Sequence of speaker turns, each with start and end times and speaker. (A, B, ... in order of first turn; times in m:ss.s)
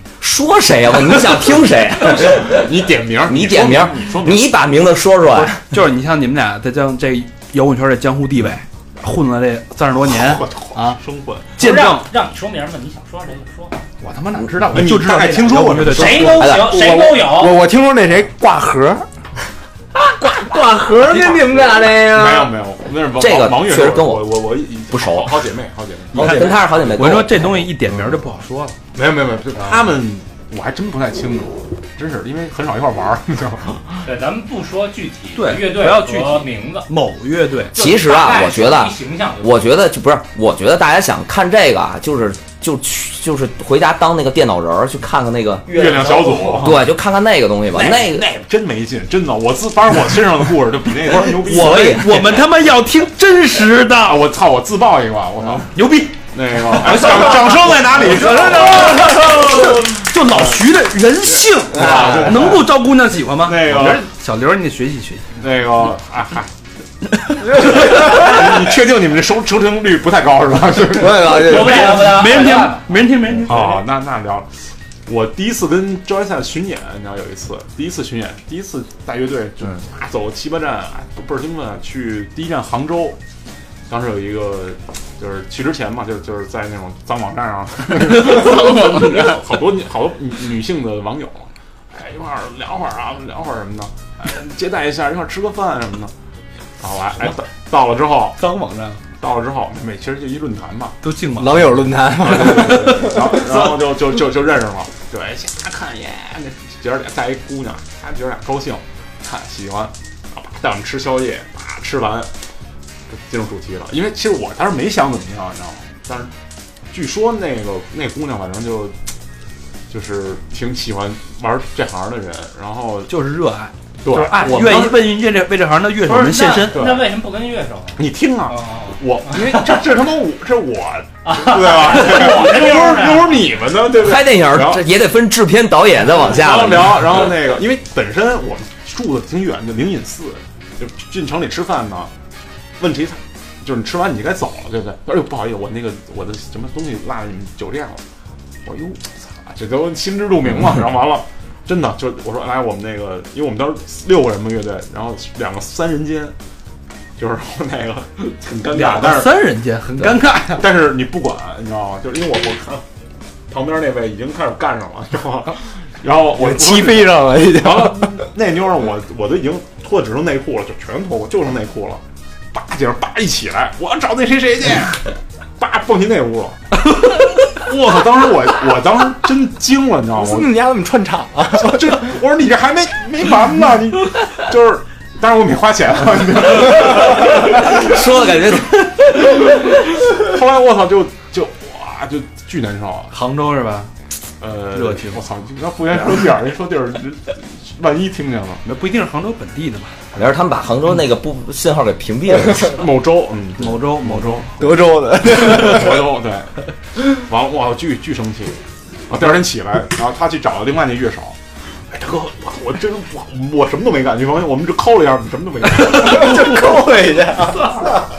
0:00.2-0:05.6 A
0:02.1-0:04.6 B
0:05.6-0:11.0 C
0:10.1-0:11.6 B
0:11.6-0:12.1 C
0:11.6-0:13.8 D
0:14.0-0:16.4 C
0:14.6-0:16.5 B
0:15.9-0:17.6 D
0:16.4-0:16.8 A
0:16.5-0:19.0 E
0:20.0-0:22.5 E
0:21.0-0:27.0 B
0:23.1-0:25.4 A
0:26.1-0:26.6 E
0:26.1-0:28.8 C
0:26.2-0:27.5 A
0:28.9-0:34.0 B
0:34.0-0:36.9 D
0:35.3-0:37.7 C
0:37.7-0:39.7 D
0:37.7-0:48.3 A
0:45.7-0:46.9 B
0:48.3-0:52.1 B
0:51.3-0:52.4 A
0:51.4-0:54.2 C
0:54.0-0:55.7 B
0:55.6-1:05.3 C
0:56.3-1:00.6 B
1:01.7-1:02.7 B
1:03.4-1:04.1 B
1:05.4-1:06.5 B
1:07.5-1:11.8 B
1:10.9-1:12.2 E
1:11.2-1:13.1 D
1:11.6-1:13.8 C
1:13.4-1:14.5 B
1:15.0-1:23.2 B
1:23.9-1:36.1 B
1:36.8-1:38.4 B
1:38.4-1:39.0 C
1:39.2-1:41.0 B
1:41.0-1:43.1 C
1:41.4-1:43.5 E
1:42.2-1:52.3 B
1:53.1-1:56.3 B
1:56.9-1:58.9 B
1:59.9-2:03.1 B
2:03.1-2:06.8 C
2:04.0-2:05.1 B
2:06.0-2:09.8 D
2:06.7-2:07.1 B
2:08.0-2:14.8 B
2:11.2-2:13.5 D
2:13.8-2:17.2 A
2:16.2-2:22.1 B
2:22.8-2:28.0 B
2:28.6-2:36.3 B
2:37.2-2:39.4 B
2:38.7-2:40.6 C
2:40.5-2:42.8 B
2:43.5-2:52.0 B
2:46.3-2:48.2 E
2:52.5-2:55.1 B
2:55.6-2:56.6 B
2:57.4-3:00.6 B
3:00.2-3:02.1 E
3:01.5-3:08.3 B
3:06.8-3:09.4 A
3:10.0-3:13.1 B
3:13.1-3:13.9 C
3:14.4-3:18.6 B
3:14.7-3:15.2 C
3:18.6-3:19.9 C
3:20.1-3:22.9 A
3:22.6-3:24.5 B
3:23.6-3:24.7 C
3:24.6-3:26.1 E
3:25.3-3:28.6 B
3:29.1-3:31.4 B
3:31.9-3:36.7 B
3:35.9-3:37.9 E